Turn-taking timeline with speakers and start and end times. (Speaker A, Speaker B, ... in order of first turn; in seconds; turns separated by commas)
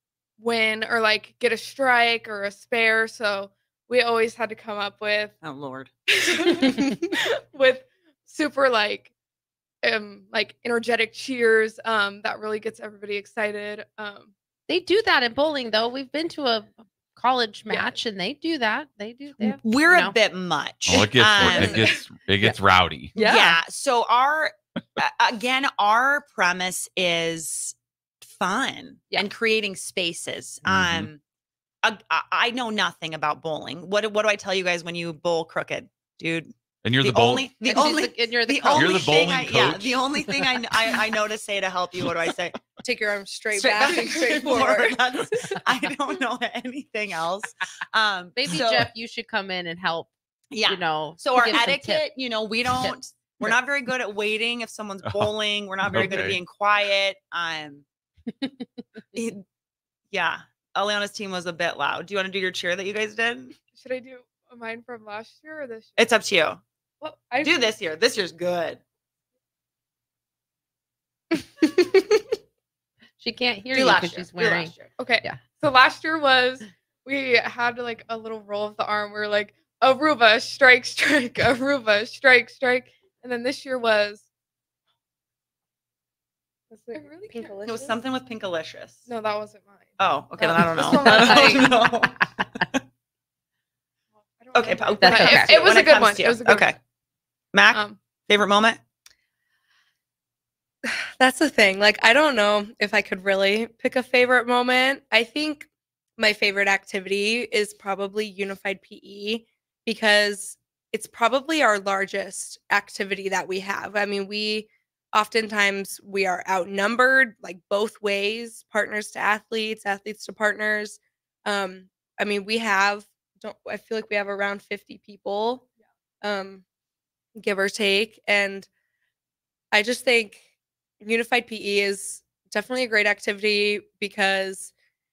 Speaker A: 0.4-5.3, Speaker B: 5.4-5.9, Speaker A: 6.2-9.1, Speaker A: 9.8-14.3, Speaker C: 14.7-20.1, Speaker B: 19.4-21.9, Speaker D: 20.9-23.1, Speaker C: 23.1-23.6, Speaker B: 23.2-31.2, Speaker D: 30.6-31.1, Speaker B: 31.8-36.5, Speaker D: 36.8-37.5, Speaker B: 37.0-42.6, Speaker C: 37.6-39.3, Speaker D: 38.7-40.0, Speaker E: 42.8-45.0, Speaker B: 43.5-48.9, Speaker C: 48.4-50.1, Speaker B: 50.5-57.8, Speaker C: 50.6-52.1, Speaker C: 52.6-53.5, Speaker D: 55.0-55.3, Speaker D: 55.8-56.4, Speaker B: 59.1-59.4, Speaker B: 60.1-63.5, Speaker A: 63.7-66.0, Speaker B: 66.0-66.6, Speaker A: 67.0-67.7, Speaker B: 67.4-68.8, Speaker C: 73.2-75.4, Speaker B: 73.7-74.9, Speaker A: 75.0-84.2, Speaker A: 86.7-88.0, Speaker B: 87.3-89.0, Speaker A: 89.0-91.9, Speaker B: 90.0-92.3, Speaker C: 90.8-91.9, Speaker A: 94.3-96.7, Speaker B: 94.5-96.8, Speaker C: 95.0-95.7, Speaker B: 97.5-98.8, Speaker A: 97.7-98.0, Speaker E: 100.9-125.6, Speaker E: 126.2-126.6, Speaker E: 127.3-128.7, Speaker E: 129.7-130.4, Speaker E: 131.0-134.7